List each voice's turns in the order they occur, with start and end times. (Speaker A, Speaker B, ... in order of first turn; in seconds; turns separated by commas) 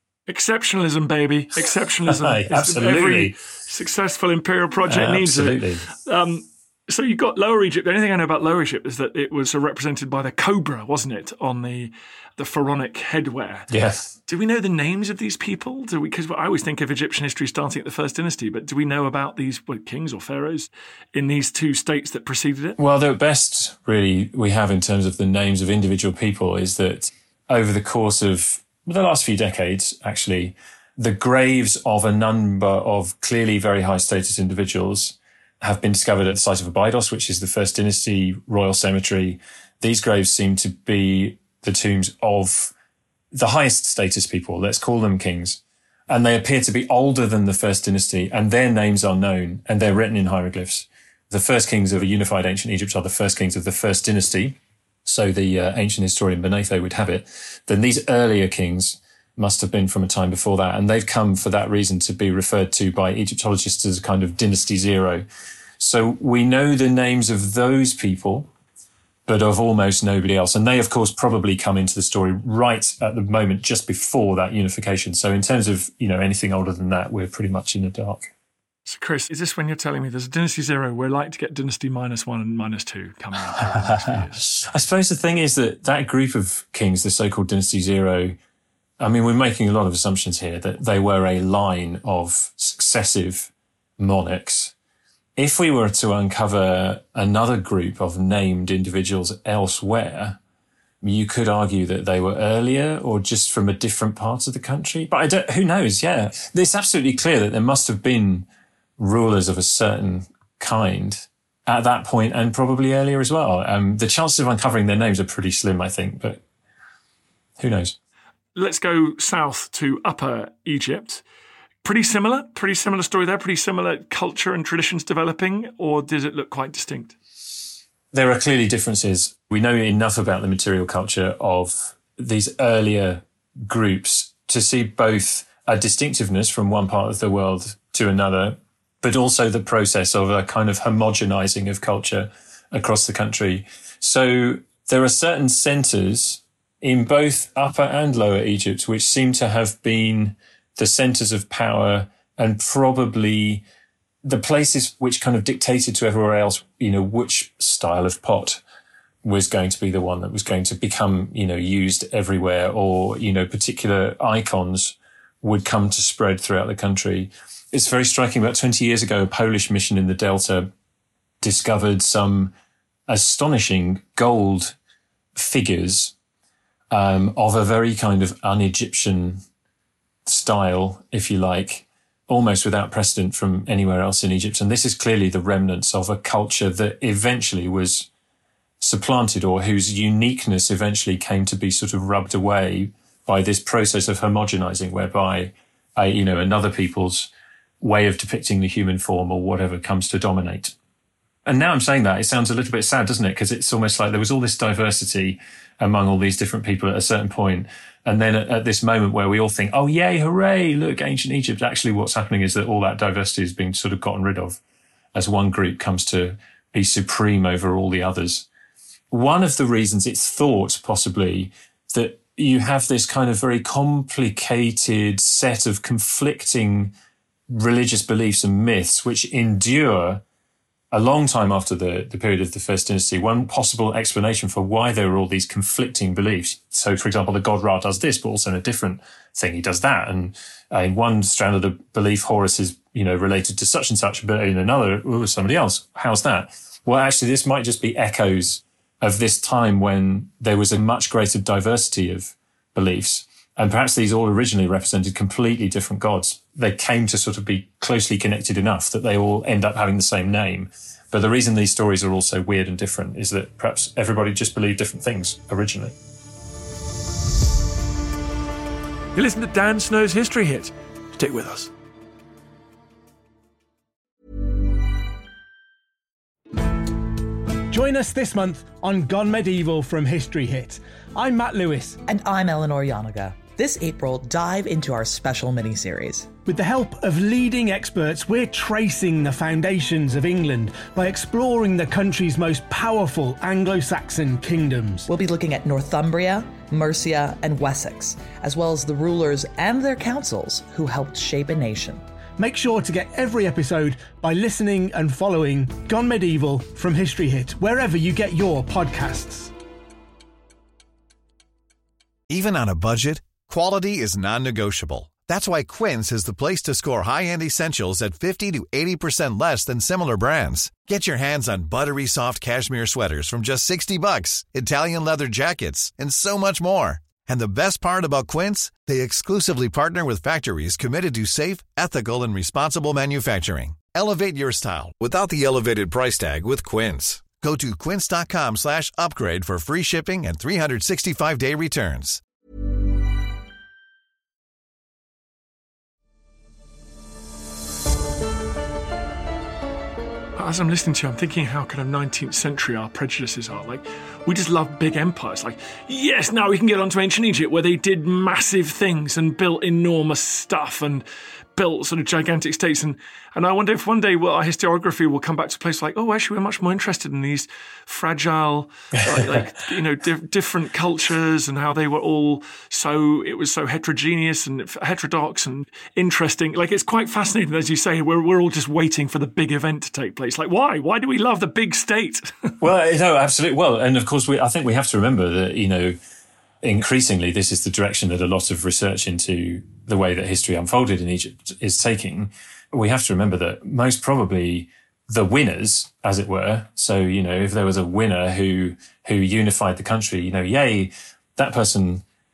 Speaker A: 0.3-13.7, Speaker B: 2.1-3.4, Speaker B: 4.9-5.9, Speaker B: 13.7-14.1, Speaker A: 14.3-22.8, Speaker B: 22.8-42.7, Speaker B: 43.3-65.2, Speaker B: 65.8-68.5, Speaker B: 69.2-78.3, Speaker A: 78.8-84.6, Speaker B: 83.9-88.4, Speaker B: 89.0-94.7, Speaker B: 95.4-100.4, Speaker B: 101.0-108.5, Speaker B: 109.0-116.4, Speaker B: 117.6-118.0, Speaker A: 118.5-121.2, Speaker A: 121.8-127.2, Speaker B: 128.1-153.6, Speaker B: 154.2-158.6, Speaker B: 159.2-170.7, Speaker B: 171.4-172.5, Speaker B: 173.1-174.8, Speaker B: 175.3-176.1, Speaker B: 176.9-179.4, Speaker B: 180.2-188.1, Speaker B: 188.8-200.7, Speaker B: 201.4-214.6, Speaker B: 215.1-218.5, Speaker B: 219.1-226.9, Speaker B: 227.5-230.2, Speaker B: 230.9-265.9, Speaker A: 269.1-271.7, Speaker C: 277.7-282.0, Speaker D: 282.1-286.3, Speaker C: 286.4-295.1, Speaker D: 295.1-302.0, Speaker C: 302.4-309.5, Speaker E: 312.3-342.2, Speaker A: 350.4-382.6, Speaker B: 382.6-386.0, Speaker B: 386.6-402.0